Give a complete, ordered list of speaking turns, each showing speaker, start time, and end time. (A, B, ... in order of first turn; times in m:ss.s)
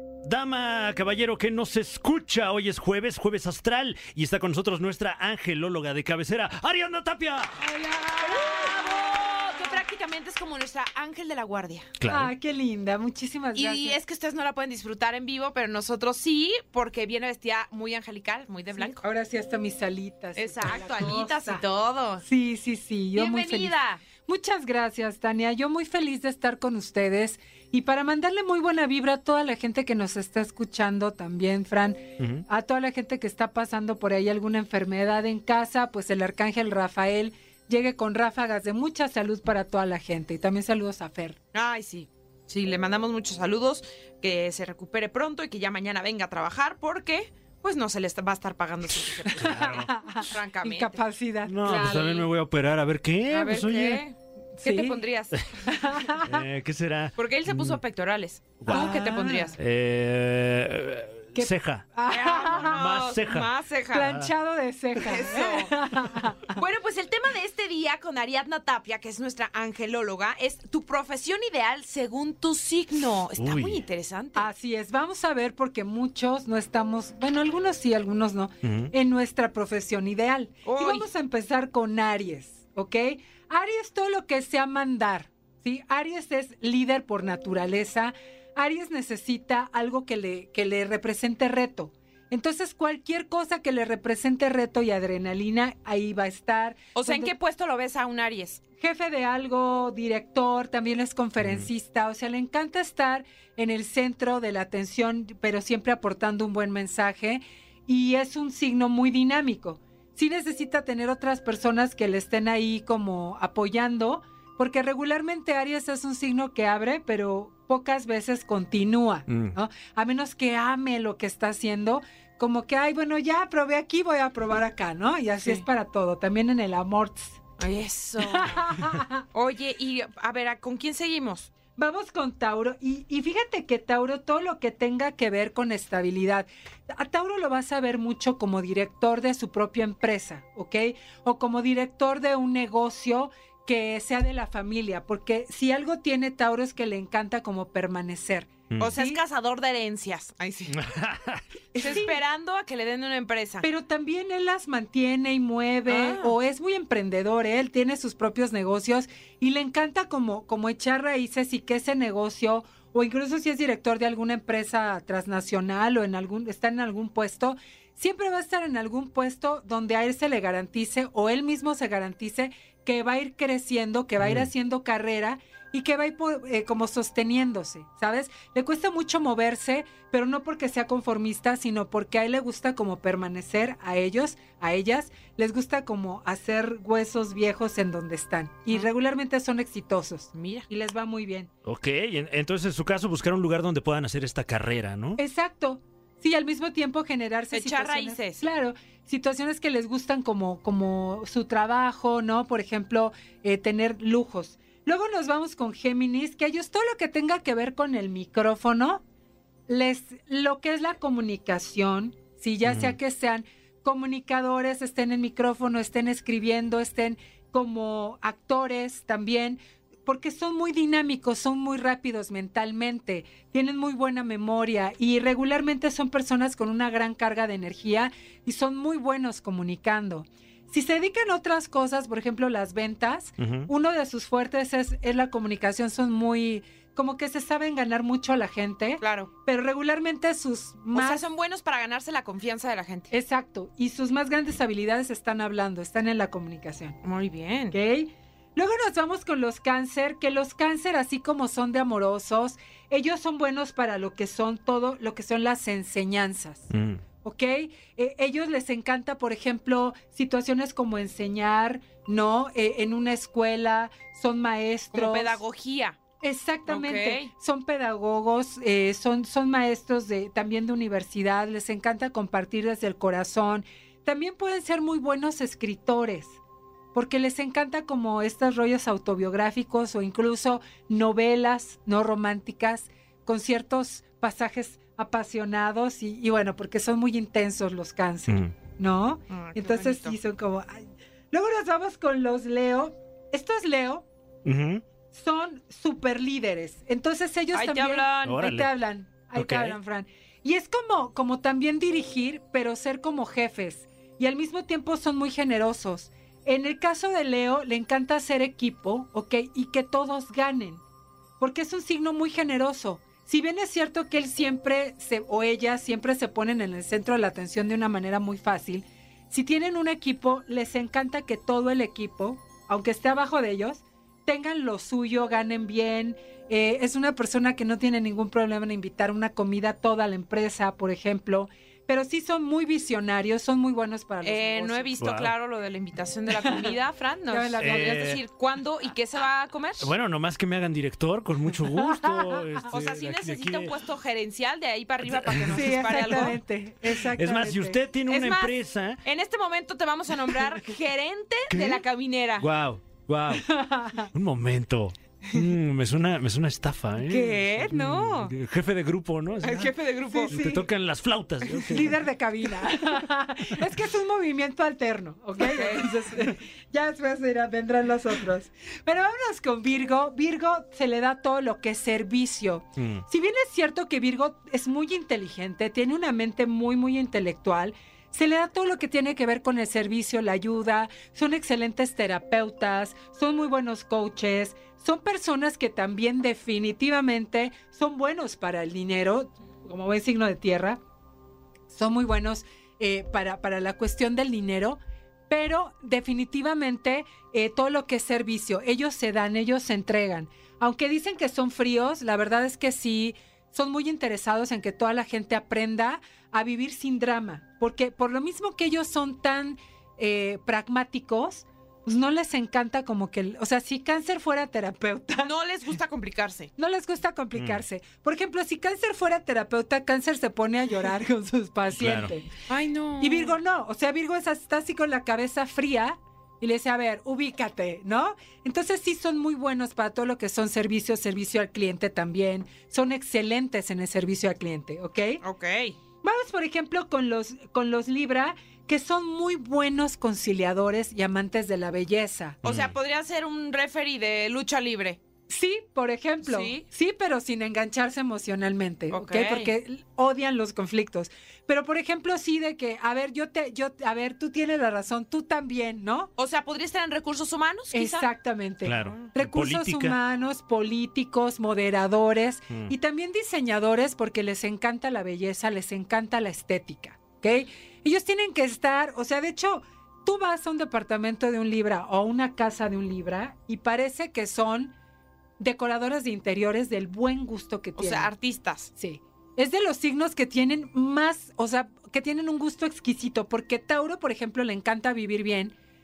0:00.2-0:07.6 A
0:07.6-0:09.8 B
0:08.2-0:11.9 C
0:12.0-0:12.3 A
0:12.1-0:14.0 B
0:13.5-0:19.1 C
0:18.8-0:21.6 B
0:20.4-0:22.2 C
0:22.2-0:41.4 B
0:23.2-0:24.0 C
0:32.2-0:32.4 A
0:41.5-0:51.0 C
0:49.4-0:49.9 A
0:49.4-0:52.2 B
0:51.5-0:54.0 A
0:51.6-0:52.2 C
0:53.3-0:55.9 C
0:54.6-0:55.0 B
0:55.7-0:56.4 B
0:56.2-0:57.8 A
0:57.2-0:59.6 C
0:58.6-0:59.0 A
0:58.7-0:59.6 B
0:59.6-1:01.9 A
1:01.4-1:02.8 B
1:02.1-1:04.1 C
1:02.6-1:03.5 A
1:03.9-1:06.6 B
1:04.0-1:04.3 A
1:05.0-1:05.7 C
1:06.6-1:14.5 C
1:13.4-1:13.8 A
1:14.4-1:37.3 B
1:18.6-1:18.9 A
1:20.6-1:21.1 C
1:37.0-1:38.6 C
1:38.8-2:07.4 B
1:41.4-1:41.7 A
1:59.3-1:59.6 A
2:07.6-2:08.7 C
2:08.2-2:09.2 B
2:09.3-2:11.5 C
2:11.8-2:29.2 B
2:28.8-2:30.8 C
2:30.7-2:31.4 A
2:31.8-2:32.2 B
2:31.8-2:33.7 C
2:33.6-3:11.5 B
2:35.9-2:36.4 C
2:54.2-2:54.5 A
3:10.3-3:10.7 C
3:11.6-3:15.2 A
3:15.2-3:29.0 B
3:17.5-3:18.5 C
3:29.7-4:01.2 B
3:32.6-3:33.0 A
3:53.4-3:53.7 A
3:59.0-3:59.3 C
4:00.9-4:03.1 C
4:03.1-4:07.0 B
4:07.0-4:07.8 C
4:07.7-4:25.4 B
4:16.7-4:17.0 A
4:24.9-4:26.0 C
4:26.2-4:36.4 B
4:26.7-4:27.3 C
4:36.9-4:54.1 B
4:48.3-4:48.5 A
4:49.3-4:50.2 C
4:54.4-4:54.8 A
4:55.1-5:10.8 B
4:57.5-4:58.5 C
4:58.2-4:58.7 A
4:59.4-4:59.8 A
5:11.4-5:35.0 B
5:34.2-5:39.9 C
5:35.0-5:35.3 A
5:36.4-5:36.7 B
5:37.3-5:38.2 B
5:37.6-5:38.2 A
5:39.8-5:43.8 A
5:41.9-5:42.6 B
5:42.7-5:46.4 C
5:45.1-5:45.6 A
5:45.5-5:47.8 B
5:47.0-5:49.0 A
5:48.1-5:52.5 C
5:51.5-5:51.8 A
5:52.4-5:53.5 A
5:53.4-5:54.1 B
5:54.1-5:59.8 A
5:57.0-5:58.3 C
5:59.4-6:00.4 C
6:00.1-6:00.7 B
6:00.3-6:02.0 A
6:01.6-6:30.8 B
6:05.4-6:05.9 C
6:12.8-6:13.0 A
6:31.7-6:55.3 B
6:55.2-6:56.5 C
6:56.6-7:02.3 B
6:57.4-6:57.6 A
7:01.7-7:02.1 A
7:02.5-7:03.4 C
7:03.0-7:15.2 B
7:15.2-7:15.8 C
7:16.0-7:22.4 B
7:22.4-7:25.0 C
7:22.4-7:22.7 A
7:25.3-7:36.1 B
7:26.2-7:26.6 C
7:28.9-7:29.5 C
7:36.2-7:38.1 C
7:37.7-7:54.7 B
7:38.6-7:40.0 A
7:38.8-7:39.1 C
7:55.4-7:58.1 B
7:57.8-7:58.7 C
7:58.8-8:05.6 B